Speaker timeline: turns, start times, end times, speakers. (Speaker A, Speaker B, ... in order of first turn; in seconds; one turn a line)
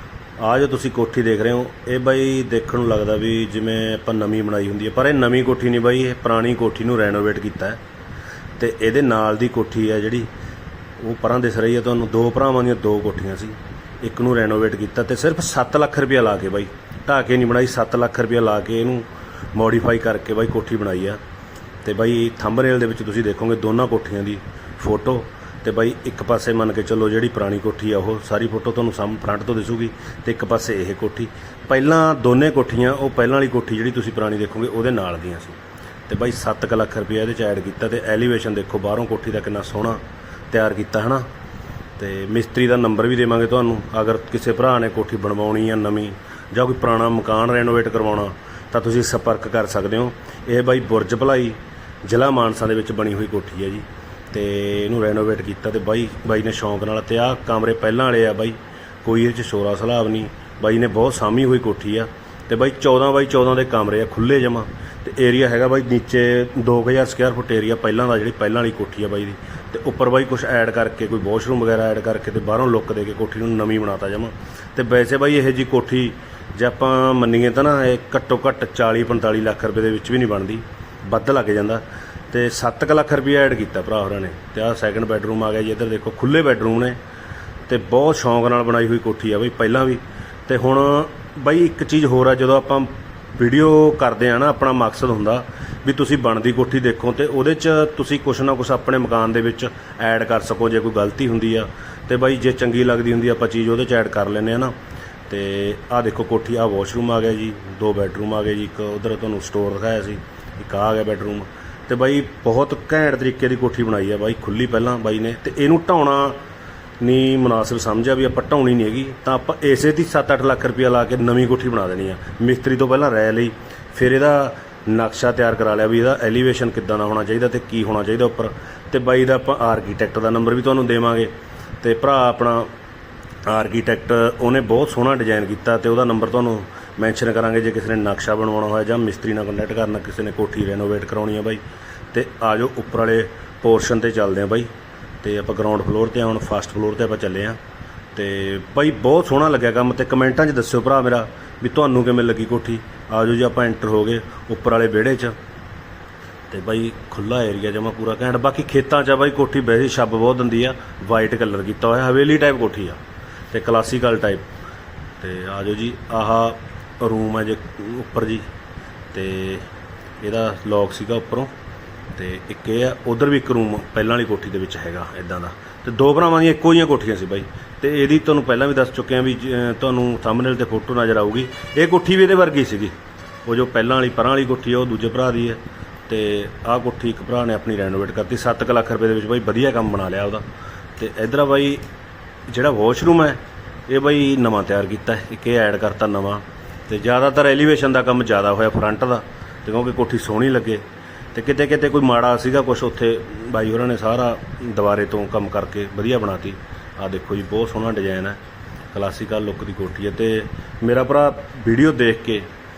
Speaker A: 0.4-7.8
Speaker A: 8.6-10.3
Speaker A: 11.0-21.2
Speaker A: 21.8-41.3
Speaker A: 42.0-87.0
Speaker A: 87.7-104.7
Speaker A: 105.3-116.4
Speaker A: 117.0-131.3
Speaker A: 131.8-132.7
Speaker A: 133.5-141.6
Speaker A: 142.1-144.7
Speaker A: 145.2-147.6
Speaker A: 148.2-155.3
Speaker A: 156.5-163.0
Speaker A: 163.5-164.4
Speaker A: 165.2-168.5
Speaker A: 169.1-169.7
Speaker A: 170.2-171.5
Speaker A: 172.2-182.9
Speaker A: 183.5-190.4
Speaker A: 191.0-191.8
Speaker A: 192.5-200.8
Speaker A: 201.3-208.4
Speaker A: 208.9-212.5